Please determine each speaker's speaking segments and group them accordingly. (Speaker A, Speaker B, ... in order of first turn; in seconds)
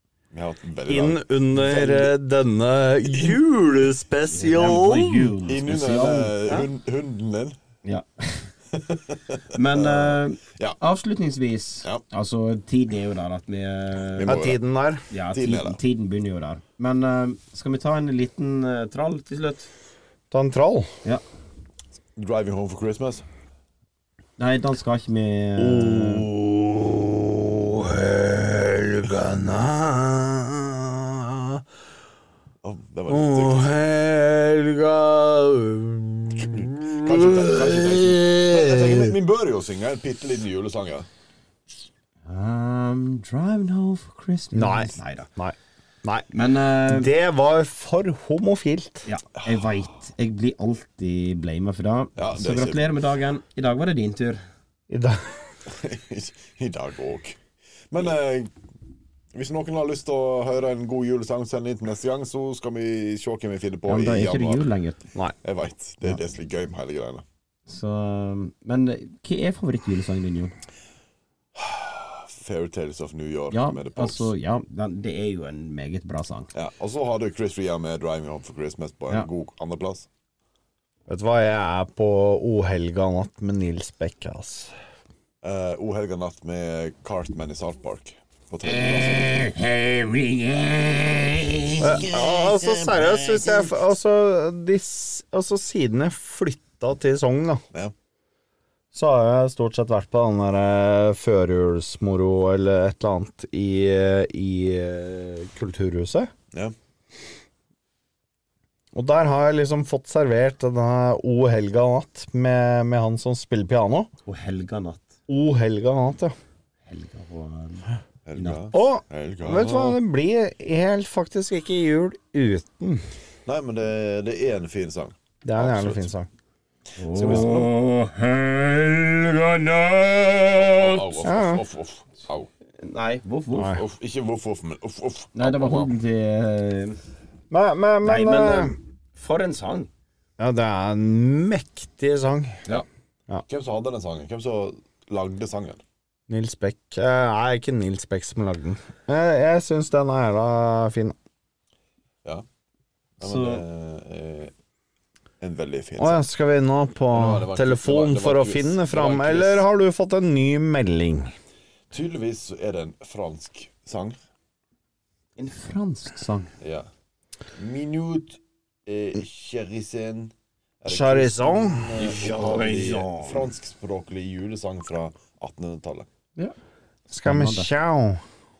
Speaker A: 0.3-2.1, 3.1-3.4, 5.5-7.5, 8.7-10.8, 14.2-14.6, 15.3-15.8, 22.1-23.2, 32.6-33.7, 36.5-41.1, 52.1-52.9, 55.6-57.4, 57.9-58.5, 59.3-64.7, 65.4-67.2, 71.5-74.3, 76.5-80.1, 85.4-89.5, 91.8-93.8, 118.2-120.0, 123.5-126.1, 127.1-127.7, 130.5-132.5, 133.7-135.9, 143.5-145.8, 153.2-154.5, 155.4-156.2, 157.1-159.7, 161.9-164.2, 166.6-166.9, 167.5-176.1
Speaker B: 0.9-5.3, 14.2-15.0, 20.3-20.9, 25.6-31.6, 33.1-39.1, 44.5-46.3, 46.9-49.1, 54.9-55.2, 81.1-84.7, 91.8-97.6, 98.9-106.3, 108.9-114.1, 115.3-116.3, 118.7-123.0, 125.4-126.3, 127.2-127.5, 131.2-131.6, 137.5-138.7, 140.4-142.6, 146.3-151.1, 156.0-161.3, 170.9-171.9, 177.1-178.2
Speaker C: 4.3-6.7, 7.8-8.5, 9.5-14.3, 15.1-19.7, 24.4-26.3, 42.2-45.3, 46.3-47.1, 49.0-54.4, 63.9-65.0, 67.7-70.5, 73.5-76.5, 88.7-92.1, 114.2-115.1, 116.8-118.6, 127.0-131.1, 132.8-133.8, 135.3-137.0, 138.0-139.9, 153.2-153.6, 165.4-166.5, 171.9-173.5, 177.2-177.7